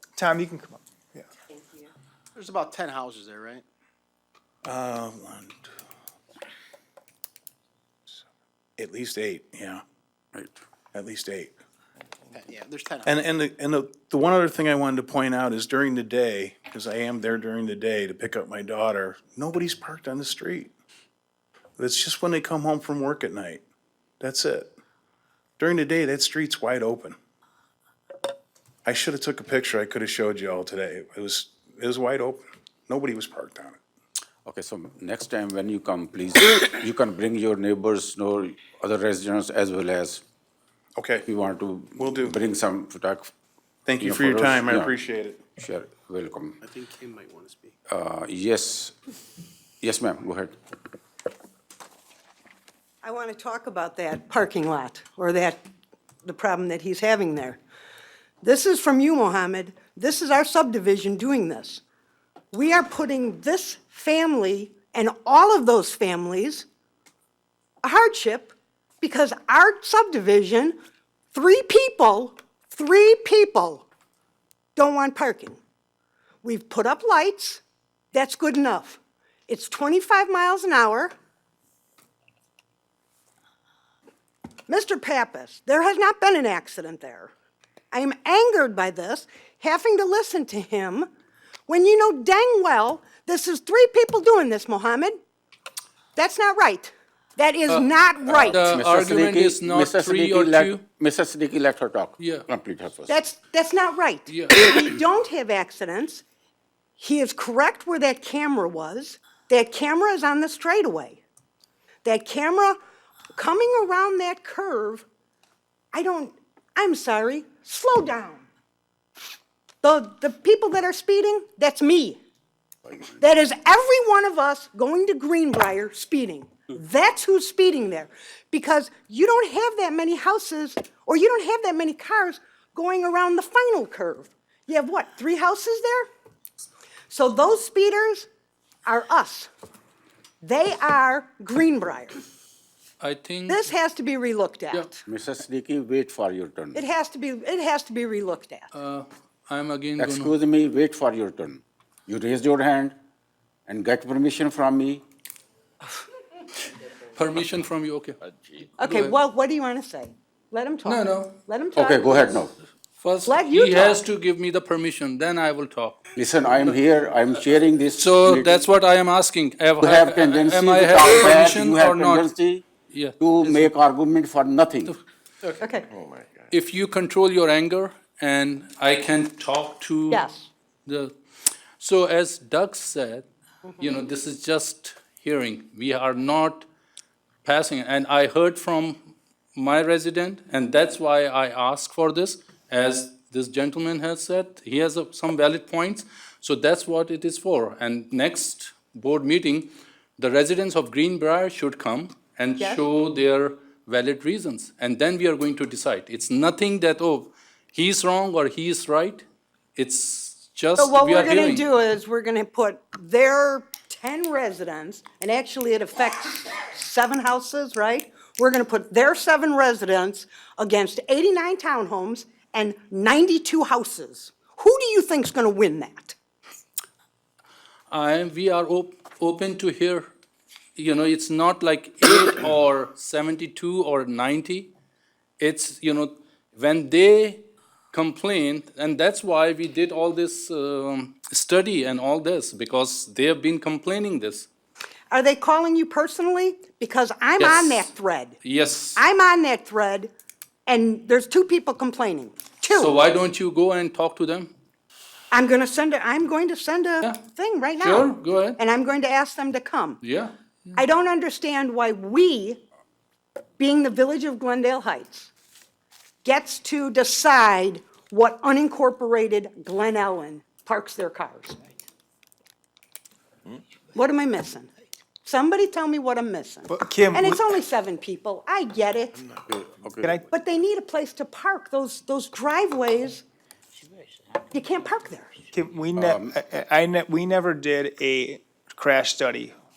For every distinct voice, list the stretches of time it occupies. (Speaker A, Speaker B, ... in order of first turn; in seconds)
Speaker A: 0.1-1.2, 276.7-277.4, 285.5-289.6
Speaker B: 2.4-3.6, 12.3-13.2, 46.6-47.8
Speaker C: 4.6-5.7, 8.8-9.8, 10.9-11.5, 13.0-20.7, 21.8-23.6, 24.2-24.7, 25.6-27.2, 28.8-33.8, 41.0-41.3, 42.0-42.4, 43.9-45.4
Speaker D: 34.5-40.2, 41.3-43.3, 44.0-44.9, 45.6-46.6, 47.9-49.0, 49.8-50.5, 98.2-103.1, 145.1-146.8, 150.0-152.9, 153.7-155.0, 161.8-162.5, 166.2-168.7, 169.8-172.6, 173.2-174.9, 279.5-280.2, 285.9-286.3
Speaker E: 53.0-55.6, 56.2-57.6, 58.4-61.8, 62.5-66.7, 67.8-70.8, 71.3-73.9, 74.8-75.6, 76.4-77.6, 78.1-81.1, 84.7-87.3, 87.9-91.1, 91.7-95.2, 96.1-98.7, 103.1-106.2, 107.0-111.2, 112.0-112.8, 113.3-115.0, 115.9-118.5, 119.8-122.2, 123.2-136.1, 137.1-138.3, 138.9-139.5, 140.4-142.2, 143.5-145.0, 146.7-148.7, 158.8-162.4, 163.2-164.0, 175.6-175.9, 180.1-180.5, 210.8-226.2, 245.1-248.4, 248.9-250.1, 250.7-252.9, 255.3-260.0, 260.8-262.6, 263.6-265.3, 266.2-271.6, 273.9-274.7, 275.2-279.3, 280.3-283.2, 284.5-285.4
Speaker F: 98.4-100.8, 102.2-102.5, 104.3-104.5, 143.0-143.6, 148.7-150.3, 157.2-158.2, 158.8-159.1, 160.8-161.4, 163.0-166.1, 168.0-172.3, 172.9-173.7, 176.5-180.2, 180.9-181.1, 181.8-183.2, 183.8-186.7, 187.4-209.2, 209.8-211.6, 227.9-230.1, 230.8-234.7, 235.4-244.5, 247.4-247.9, 248.4-249.0, 252.7-254.5, 257.8-258.6, 260.0-260.8